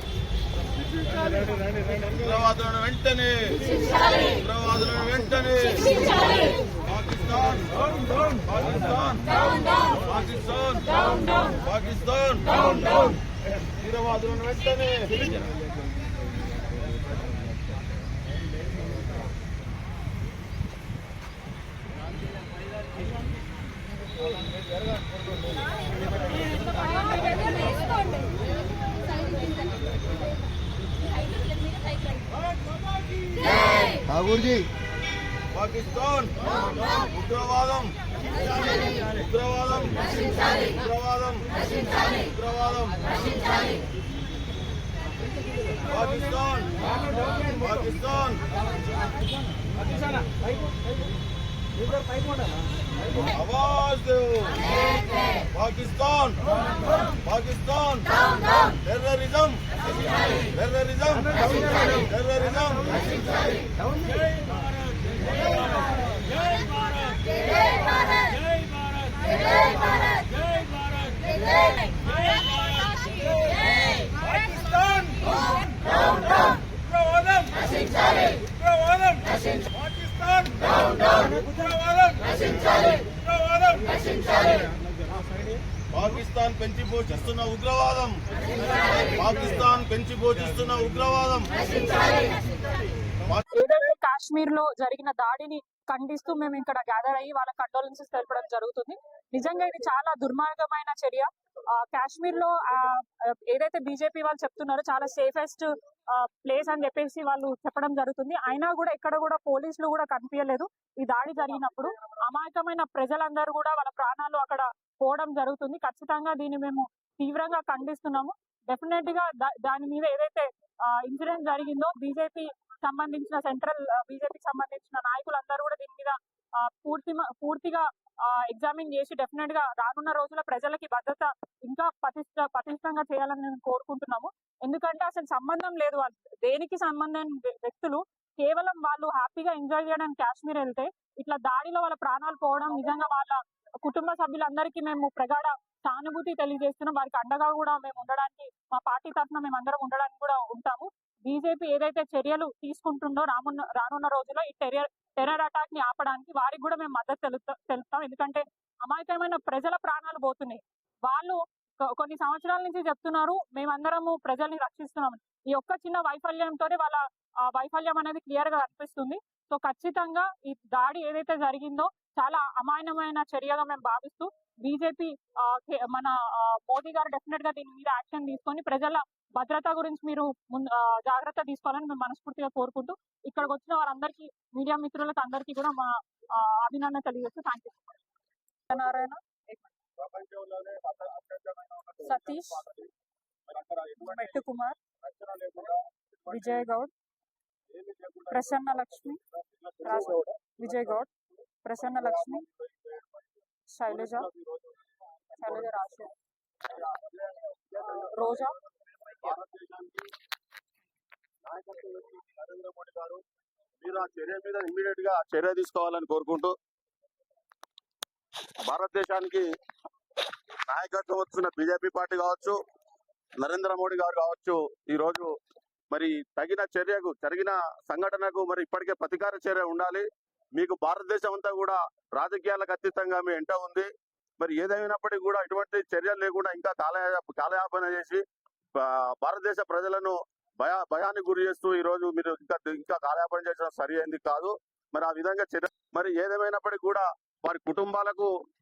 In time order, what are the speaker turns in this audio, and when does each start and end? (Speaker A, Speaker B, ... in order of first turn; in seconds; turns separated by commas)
Speaker A: 2.2-6.1, Speaker A: 6.9-7.7, Speaker A: 8.5-9.2, Speaker A: 10.1-10.8, Speaker A: 11.6-12.8, Speaker A: 14.0-15.3, Speaker A: 35.6-36.3, Speaker A: 37.0-37.9, Speaker A: 39.1-40.0, Speaker A: 40.6-41.5, Speaker A: 42.0-43.0, Speaker A: 45.9-46.8, Speaker A: 47.4-48.4, Speaker A: 53.3-54.6, Speaker A: 55.5-56.5, Speaker A: 57.2-58.0, Speaker A: 58.8-59.6, Speaker A: 60.5-63.0, Speaker A: 85.9-88.2, Speaker A: 89.1-91.5, Speaker B: 93.5-187.8, Speaker B: 188.7-189.7, Speaker A: 190.0-192.9, Speaker B: 192.1-192.6, Speaker A: 193.5-194.4, Speaker B: 194.0-194.8, Speaker A: 195.0-196.7, Speaker B: 196.3-196.9, Speaker A: 197.7-200.7, Speaker B: 198.3-199.2, Speaker B: 199.8-201.1, Speaker B: 201.7-202.4, Speaker A: 201.9-203.3, Speaker B: 203.7-204.3, Speaker A: 203.9-204.8, Speaker A: 205.4-205.8, Speaker B: 205.4-206.1, Speaker A: 206.6-208.5, Speaker B: 208.1-208.6, Speaker A: 209.0-210.1, Speaker A: 211.4-213.2, Speaker A: 213.8-216.6, Speaker A: 218.7-219.5, Speaker A: 220.7-222.6, Speaker A: 223.4-225.3, Speaker A: 225.9-238.2, Speaker A: 238.8-248.3